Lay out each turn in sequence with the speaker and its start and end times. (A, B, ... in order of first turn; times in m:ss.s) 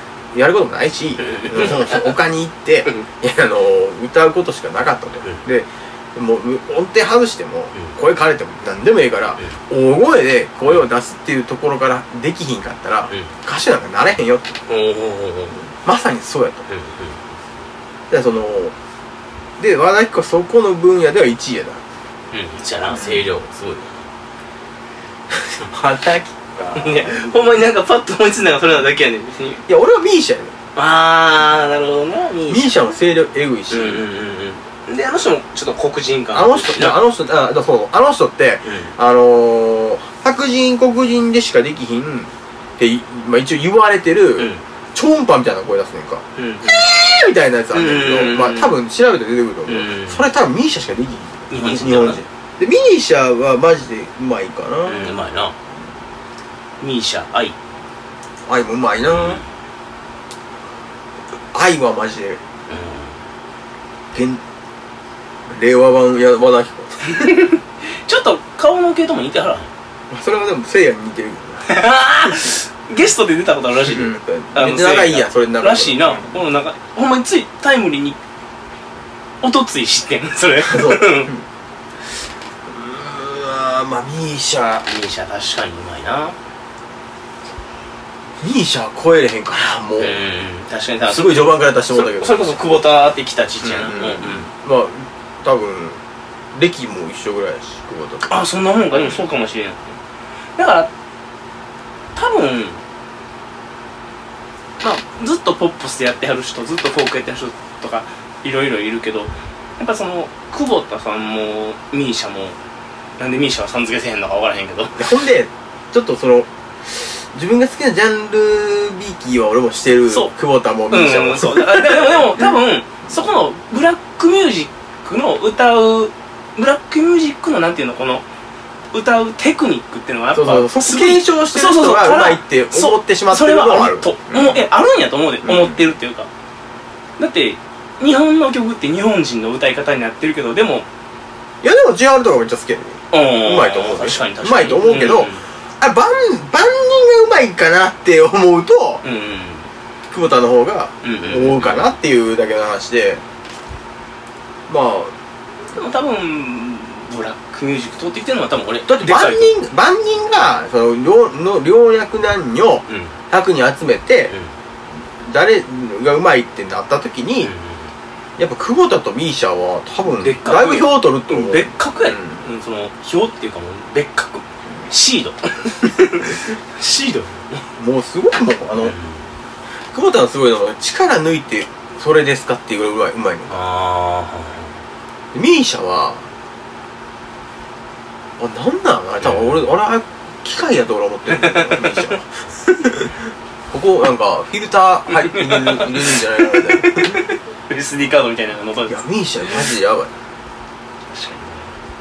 0:00.3-0:14.5 A
0:01.2-0:02.2 B
0:14.7-0:15.7 B
0:15.8-0:16.6 A
0:16.7-0:17.2 B
0:18.1-0:18.7 A
0:19.6-0:21.8 A
0:22.3-0:24.0 B
0:22.9-0:23.2 A
0:25.3-0:27.4 A
0:26.8-0:29.6 B
0:29.7-0:30.6 A
0:30.8-0:32.7 B
0:32.5-0:34.0 A
0:33.7-0:37.0 B
0:36.3-0:55.2 A
0:38.6-0:38.9 B
0:44.4-0:44.6 B
0:46.4-0:46.9 B
0:47.7-0:48.7 B
0:49.7-0:50.2 B
0:51.5-0:52.2 B
0:54.8-0:55.6 B
0:56.8-0:57.6 B
0:58.4-0:59.4 A
0:59.1-0:59.4 B
1:01.5-1:02.4 A
1:02.7-1:03.2 B
1:04.1-1:04.4 A
1:05.5-1:07.4 A
1:07.0-1:09.7 B
1:10.1-1:11.7 A
1:11.6-1:18.2 B
1:13.8-1:16.4 A
1:19.4-1:21.3 B
1:20.6-1:21.4 A
1:22.7-1:24.9 A
1:24.9-1:26.4 B
1:28.4-1:30.2 A
1:30.0-1:34.5 B
1:31.1-1:32.6 A
1:33.6-1:36.0 A
1:36.5-1:39.2 A
1:38.2-1:40.0 B
1:40.6-1:40.9 B
1:42.2-1:42.8 B
1:44.8-1:52.6 B
1:53.2-1:55.0 B
1:54.9-2:02.4 A
2:00.9-2:08.2 B
2:08.9-2:16.3 B
2:10.3-2:14.6 A
2:15.4-2:15.8 A
2:17.2-2:20.8 B
2:21.6-2:29.0 A
2:23.1-2:25.5 B
2:29.0-2:29.7 B
2:30.1-2:33.2 A
2:31.0-2:31.9 B
2:34.7-2:35.1 A
2:35.7-2:39.6 B
2:38.9-2:44.3 A
2:42.9-2:43.1 B
2:45.2-2:47.5 A
2:47.4-2:47.9 B
2:48.4-2:52.4 A
2:50.1-2:57.6 B
2:57.8-2:59.0 A
2:58.8-2:59.2 B
2:59.9-3:03.6 A
3:03.5-3:04.7 B
3:05.3-3:06.2 A
3:08.4-3:17.3 A
3:09.2-3:09.7 B
3:11.3-3:12.1 B
3:15.1-3:19.6 B
3:18.9-3:20.1 A
3:21.1-3:21.7 B